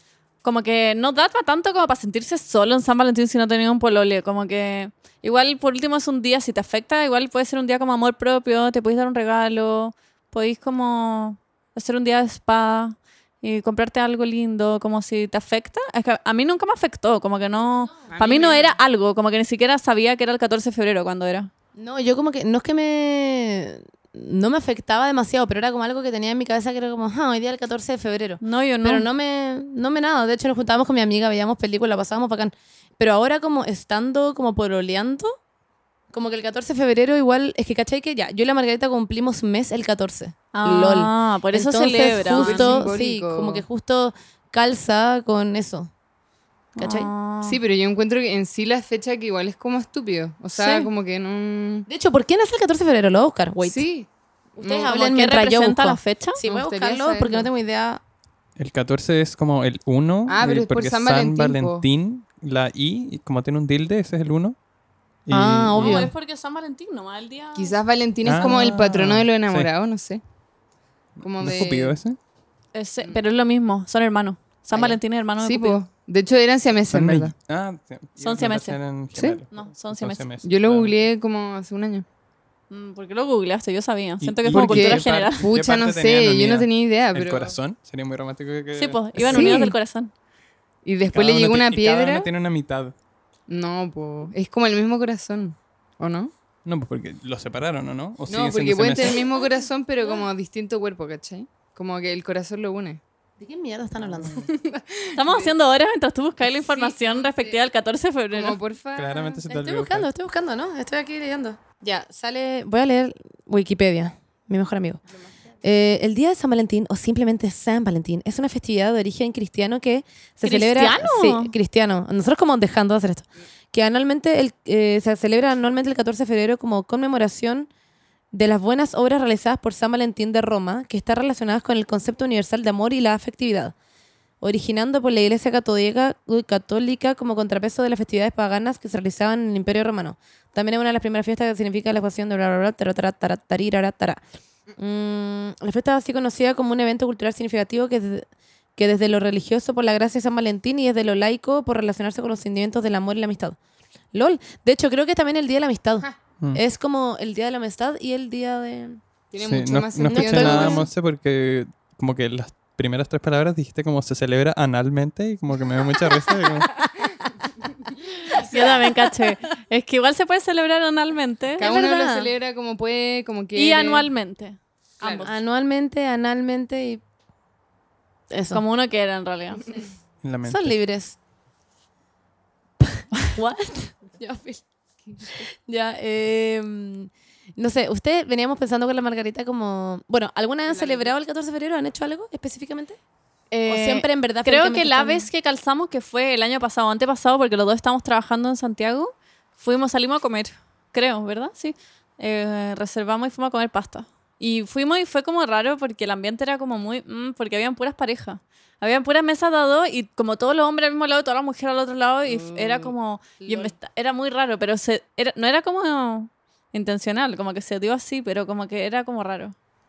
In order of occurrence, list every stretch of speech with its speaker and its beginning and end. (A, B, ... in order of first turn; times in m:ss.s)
0:00.4-0:21.5 A
0:18.1-0:18.8 B
0:21.8-0:35.4 C
0:28.4-0:29.1 A
0:36.1-0:45.9 C
0:40.5-0:42.8 A
0:42.2-0:43.6 B
0:46.8-0:47.6 A
0:46.8-0:47.1 C
0:47.4-0:51.9 B
0:50.6-0:50.9 A
0:51.9-0:53.8 C
0:53.6-0:55.0 B
0:54.6-0:58.0 C
0:54.9-0:56.4 A
0:56.4-0:57.5 B
0:58.6-1:04.6 D
1:00.3-1:01.8 B
1:05.3-1:06.1 D
1:05.3-1:06.1 C
1:05.8-1:07.8 A
1:07.6-1:10.2 B
1:08.2-1:09.7 D
1:08.3-1:08.7 C
1:11.2-1:12.2 D
1:11.2-1:12.0 B
1:12.7-1:15.8 A
1:14.7-1:17.3 B
1:16.9-1:21.0 D
1:18.2-1:18.8 A
1:19.2-1:19.4 B
1:19.5-1:20.3 A
1:20.4-1:22.0 B
1:22.7-1:25.4 A
1:24.2-1:29.5 D
1:24.5-1:27.6 B
1:28.7-1:30.1 A
1:29.2-1:29.8 C
1:29.3-1:29.7 B
1:30.8-1:32.3 B
1:31.1-1:33.0 D
1:33.5-1:36.3 B
1:36.6-1:39.3 D
1:38.3-1:43.0 B
1:43.4-1:44.5 C
1:44.0-1:44.5 D
1:44.3-1:45.6 B
1:45.1-1:48.6 A
1:46.5-1:47.6 B
1:48.3-1:49.4 B
1:49.0-1:50.1 D
1:49.5-1:55.0 C
1:55.6-2:07.7 C
2:00.4-2:01.5 A
2:08.3-2:13.7 C
2:14.4-2:24.2 C
2:24.8-2:33.6 C
2:34.1-2:39.0 C
2:39.3-2:40.9 B
2:39.4-2:46.7 D
2:40.1-2:40.9 C
2:48.3-2:49.1 C
2:48.3-2:51.7 A
2:51.6-2:52.3 C
2:51.6-2:54.1 B
2:53.6-2:55.4 A
2:55.0-2:55.3 B
2:55.2-2:57.0 C
2:58.3-2:58.6 C
2:58.5-2:59.6 A
3:00.2-3:00.8 D
3:00.4-3:01.2 C
3:03.2-3:04.6 C
3:05.0-3:05.4 B
3:05.2-3:13.0 C
3:10.7-3:11.1 B
3:13.5-3:39.6 A
3:13.7-3:15.3 C
3:32.4-3:32.9 B
3:33.4-3:33.8 C